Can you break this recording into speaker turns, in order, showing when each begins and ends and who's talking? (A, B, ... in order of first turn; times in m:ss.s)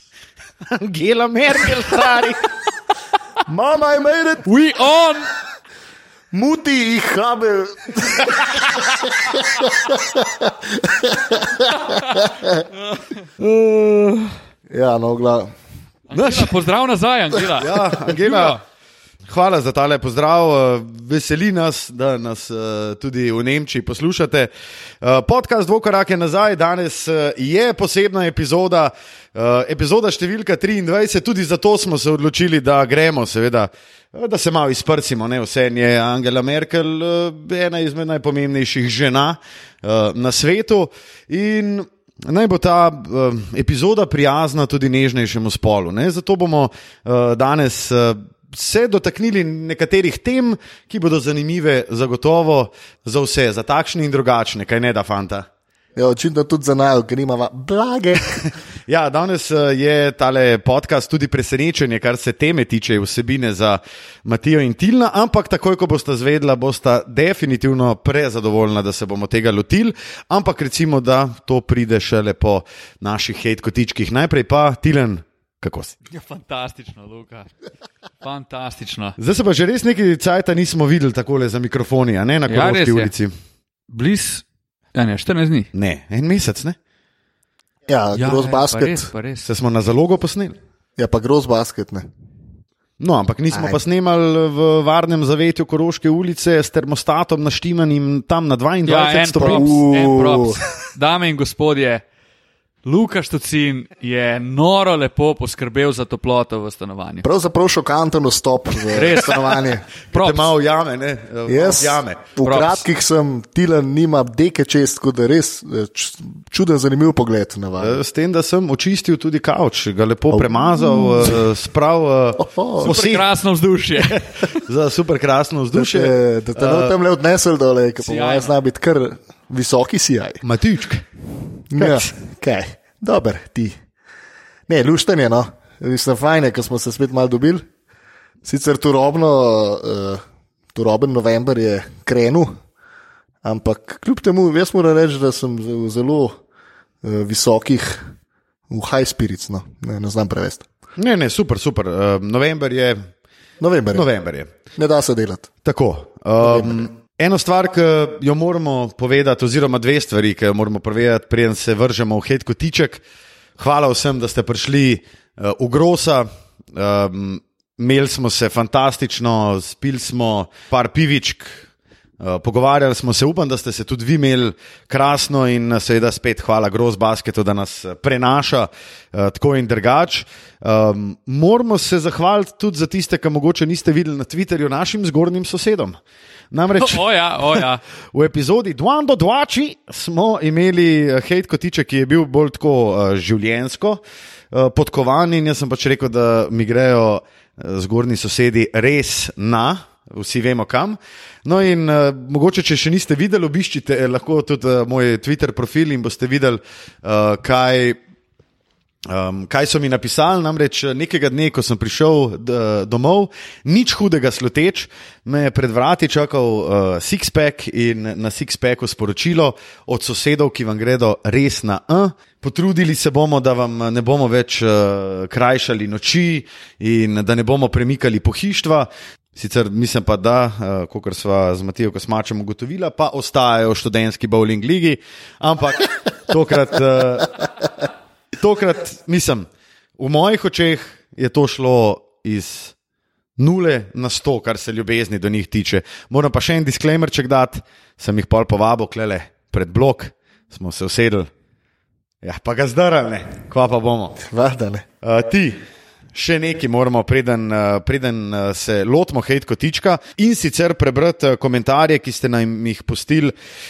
0:00.7-0:02.5 A
0:03.5-0:04.5 B
0:04.5-0:05.3 C
0:06.3-0:12.6 B
0:13.4-0:14.3 A
0:14.7-0:15.5 B
0:16.1-0:18.6 C
0:16.1-0:16.5 A
0:17.6-0:18.6 A
0:19.3-0:24.5 A
0:25.0-0:55.5 A
0:56.0-0:58.4 B
0:58.9-1:16.0 A
1:16.1-1:17.5 C
1:18.2-1:19.2 C
1:19.2-1:23.3 A
1:22.5-1:23.1 C
1:23.9-1:25.7 C
1:25.7-1:26.8 A
1:27.9-1:29.1 B
1:28.2-1:29.5 C
1:29.4-1:30.6 A
1:31.0-1:32.1 B
1:33.0-1:39.7 A
1:33.5-1:33.8 B
1:38.9-1:42.0 C
1:39.4-1:40.6 B
1:42.8-1:47.2 C
1:47.2-1:49.9 B
1:48.9-1:50.5 C
1:50.1-1:52.2 A
1:51.5-1:58.0 B
1:52.4-1:52.8 C
1:57.8-2:03.2 A
2:00.3-2:01.5 B
2:02.4-2:02.9 B
2:02.8-2:04.6 C
2:04.0-2:06.9 A
2:05.7-2:10.4 B
2:08.0-2:08.5 C
2:10.4-2:11.0 A
2:11.7-2:13.8 B
2:14.7-2:17.6 B
2:18.4-2:22.5 B
2:23.4-2:26.4 B
2:27.0-2:28.1 B
2:28.7-2:30.7 B
2:31.0-2:33.0 A
2:33.6-2:34.1 B
2:33.9-2:34.5 A
2:34.8-2:35.5 B
2:35.6-2:43.0 A
2:36.4-2:36.8 B
2:43.6-2:51.7 A
2:52.2-3:06.0 A
3:06.5-3:14.0 A
3:06.8-3:07.8 C
3:14.5-3:28.0 A
3:29.1-3:57.5 A
3:58.4-3:59.5 A
4:00.0-4:02.8 A
4:03.4-4:11.3 A
4:12.2-4:14.2 A
4:14.2-4:14.9 B
4:15.0-4:15.6 A
4:16.1-4:23.3 A